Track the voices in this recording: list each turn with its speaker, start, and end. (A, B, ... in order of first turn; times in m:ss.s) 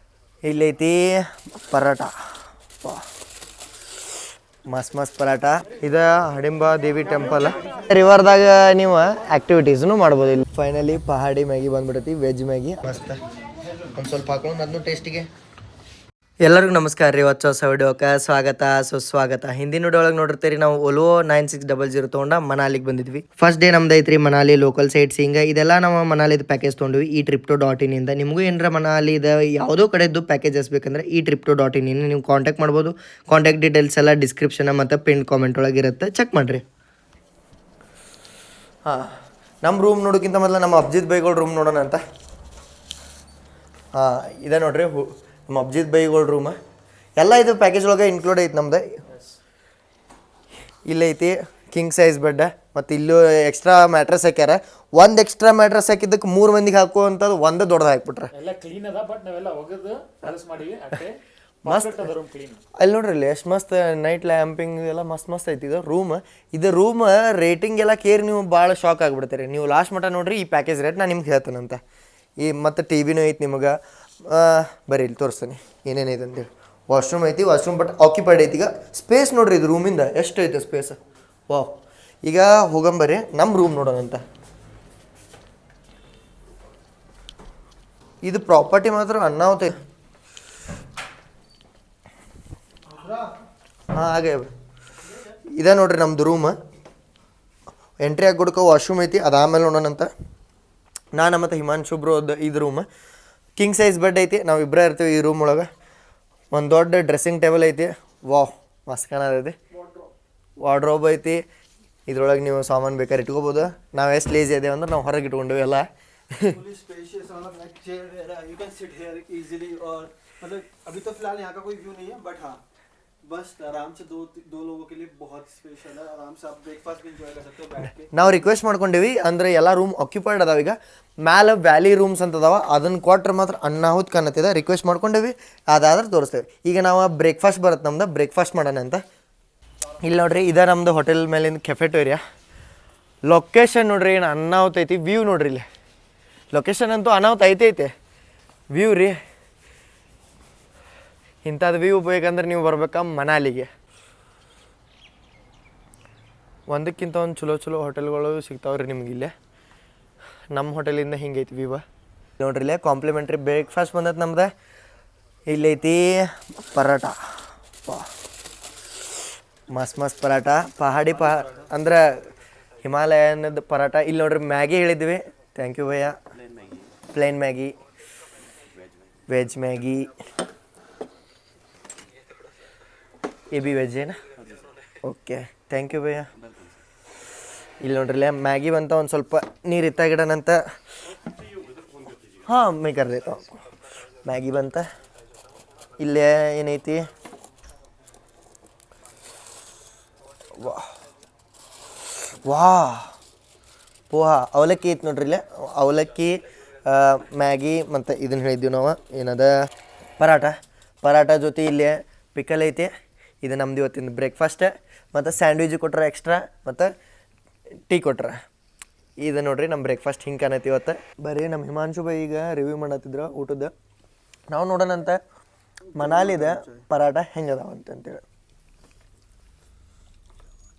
0:00.4-0:02.1 A
0:02.8-0:03.0 A
0:04.7-0:13.2 A
0:14.0-0:15.3 A
0:16.4-0:36.6 A
0:38.8-0:42.0 A
0:43.9-0:46.6 A
0:47.2-0:49.0 A
0:50.8-0:58.3 A
0:58.3-1:02.6 B
1:01.6-1:02.1 A
1:02.8-1:11.8 A
1:12.4-1:21.0 A
1:21.5-1:24.2 A
1:28.2-1:29.8 A
1:32.9-1:33.2 C
1:33.9-1:34.5 A
1:35.6-1:36.6 A
1:38.0-1:40.1 A
1:41.1-1:42.9 A
1:43.6-1:45.7 A
1:46.5-1:49.6 A
1:49.7-1:50.1 C
1:50.6-1:51.4 A
1:52.1-1:56.6 A
1:56.4-2:02.6 C
2:03.2-2:08.3 C
2:08.1-2:19.0 A
2:20.0-2:22.2 A
2:23.3-2:25.6 A
2:26.5-2:27.9 A
2:28.7-2:29.2 A
2:31.4-2:33.7 A
2:36.7-2:39.3 A
2:40.5-2:41.8 A
2:42.4-2:44.5 A
2:45.5-2:48.1 A
2:49.7-2:52.3 A
2:52.8-2:56.2 A
2:57.1-2:57.8 A
2:59.3-3:00.1 A
3:03.5-3:04.2 A
3:05.0-3:06.3 A
3:07.8-3:10.6 A
3:12.4-3:13.6 A
3:14.2-3:14.9 A
3:16.0-3:17.1 A
3:20.5-3:20.9 A
3:22.3-3:23.1 A
3:24.1-3:29.7 A
3:30.2-3:32.9 A
3:33.4-3:36.9 A
3:37.9-3:38.4 A
3:39.2-3:43.7 A
3:44.5-3:45.2 A
3:46.0-3:46.8 C
3:46.0-3:48.2 A